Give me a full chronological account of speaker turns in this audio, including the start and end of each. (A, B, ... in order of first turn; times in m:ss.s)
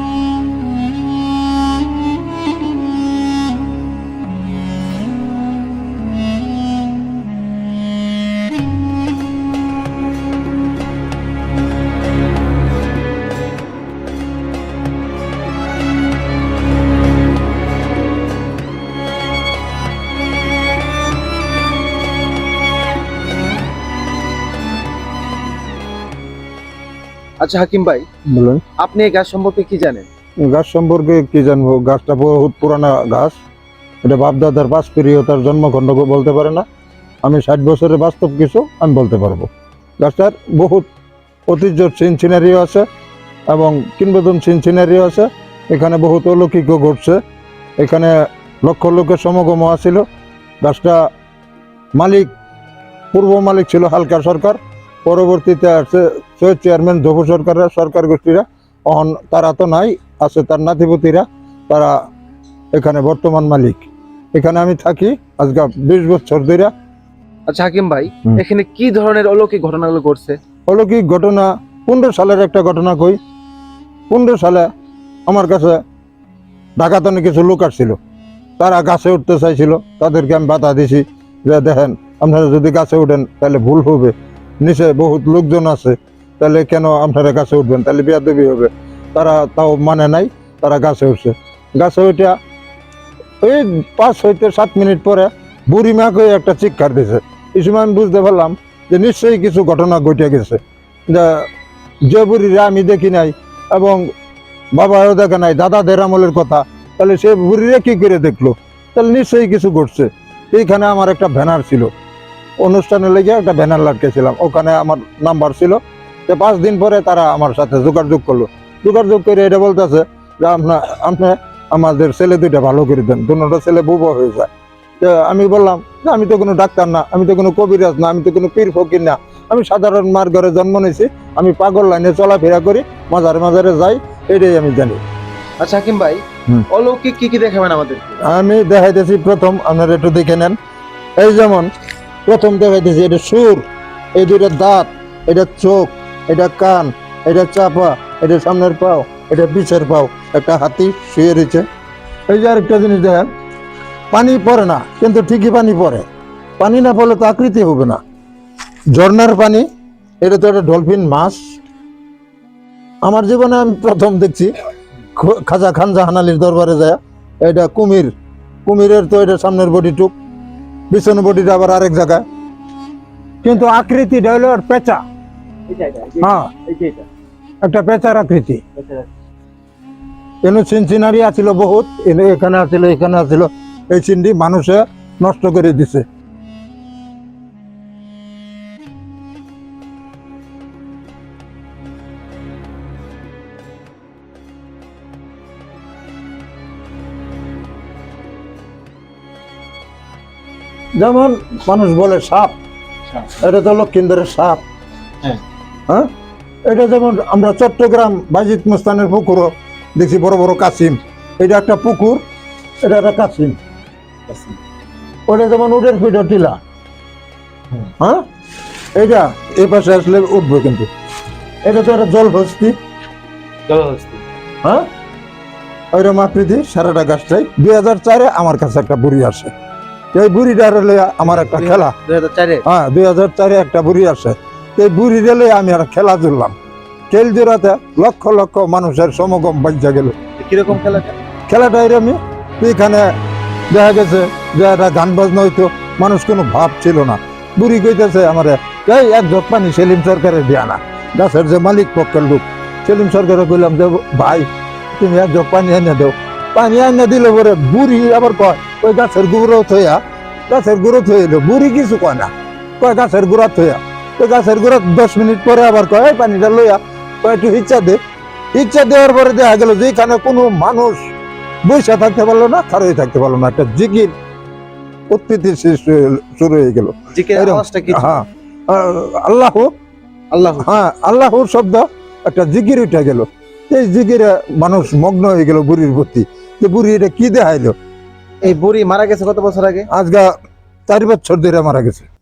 0:27.4-0:28.1 A
0:28.3-0:28.6 B
0:28.8-0:30.1 A
0:30.4-0:33.4 B
0:34.0-0:36.6 B
0:37.2-0:39.5 B
0:40.0-0:40.9 B
0:41.5-0:42.9 B
0:43.5-0:47.2 B
0:47.8-0:48.1 B
0:48.6-0:50.0 B
0:50.6-0:51.0 B
0:52.0-0:52.3 B
0:53.1-1:01.9 B
1:02.7-1:06.7 B
1:07.5-1:10.4 A
1:10.7-1:13.2 B
1:14.1-1:14.7 B
1:15.3-1:15.8 B
1:16.8-1:18.0 B
1:18.6-1:32.4 B
1:33.4-1:41.5 B
1:42.1-1:44.1 B
1:44.7-1:51.9 B
1:52.6-2:15.0 B
2:15.6-2:18.2 A
2:18.2-2:20.6 B
2:21.2-2:21.7 B
2:22.3-2:23.6 B
2:24.2-2:31.6 B
2:32.3-2:33.3 B
2:34.1-2:36.1 B
2:36.6-2:38.0 B
2:38.9-2:39.7 B
2:40.2-2:41.5 B
2:43.0-2:44.5 B
2:45.2-2:48.1 B
2:48.6-2:50.1 B
2:50.9-2:52.2 B
2:53.4-2:55.0 B
2:55.7-2:57.1 A
2:56.2-2:56.5 B
2:57.6-2:58.6 B
2:58.8-2:59.1 A
3:00.4-3:06.0 B
3:21.0-3:22.6 B
3:23.3-3:24.6 B
3:26.7-3:32.2 B
3:32.8-3:33.6 B
3:34.3-3:34.6 A
3:35.3-3:36.6 B
3:38.0-3:38.2 B
3:39.0-3:40.9 B
3:41.6-3:42.8 B
3:43.7-3:44.2 A
3:45.9-3:49.5 B
3:50.1-3:51.9 B
3:51.3-3:52.7 A
3:52.7-3:56.6 B
3:57.1-4:00.2 B
4:00.4-4:01.2 A
4:01.5-4:03.1 B
4:03.7-4:28.0 B
4:28.5-4:31.1 B
4:31.6-4:34.1 B
4:35.1-4:39.7 B
4:37.1-4:38.2 A
4:40.3-4:40.8 A
4:40.6-4:47.7 B
4:48.4-4:49.9 A
4:49.9-4:50.3 B
4:50.9-4:52.1 B